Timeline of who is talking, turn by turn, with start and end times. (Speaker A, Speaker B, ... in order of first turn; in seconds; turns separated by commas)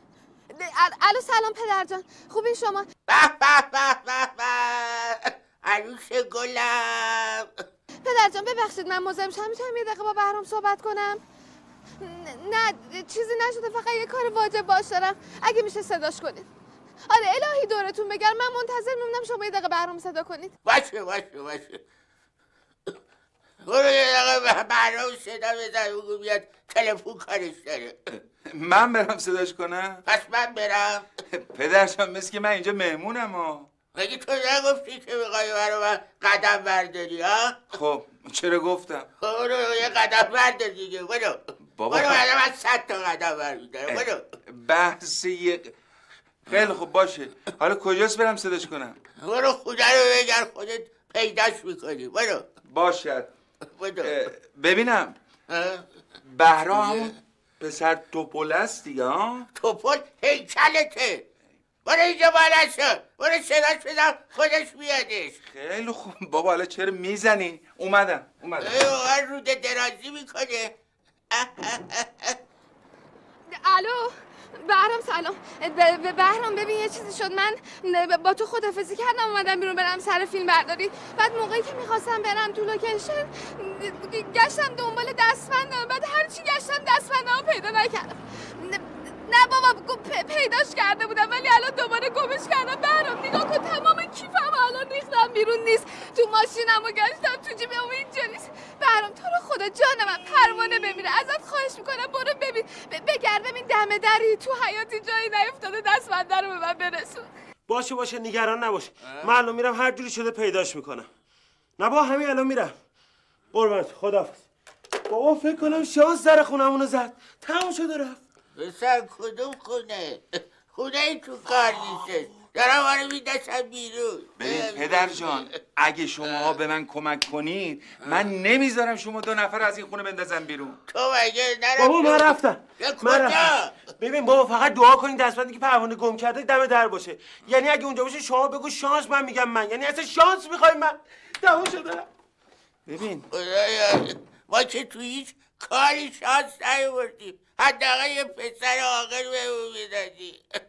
Speaker A: 0.5-2.9, Speaker B: 3.1-7.5, Speaker A: 8.1-11.2, Speaker A: 12.0-16.5, Speaker A: 17.1-20.5, Speaker B: 20.6-21.8, Speaker B: 23.7-28.0, Speaker C: 28.1-30.0, Speaker B: 30.1-31.1, Speaker C: 31.3-33.7, Speaker B: 34.0-37.6, Speaker C: 37.7-39.1, Speaker B: 39.2-41.4, Speaker C: 41.8-42.2, Speaker B: 41.9-44.2, Speaker C: 43.9-45.7, Speaker C: 46.5-49.0, Speaker B: 49.2-52.5, Speaker C: 52.7-53.3, Speaker B: 53.8-54.1, Speaker C: 54.0-55.2, Speaker B: 55.5-55.8, Speaker C: 56.2-59.5, Speaker B: 56.8-57.1, Speaker B: 59.6-61.2, Speaker B: 61.9-65.4, Speaker C: 65.5-68.8, Speaker B: 68.6-70.7, Speaker B: 71.3-72.4, Speaker A: 73.5-107.3, Speaker D: 107.7-111.1, Speaker D: 111.8-112.8, Speaker D: 113.5-114.4, Speaker D: 115.1-118.2, Speaker B: 118.6-125.5, Speaker C: 124.4-130.8, Speaker B: 130.9-133.8, Speaker D: 131.8-142.1, Speaker C: 142.9-143.3, Speaker B: 143.3-150.6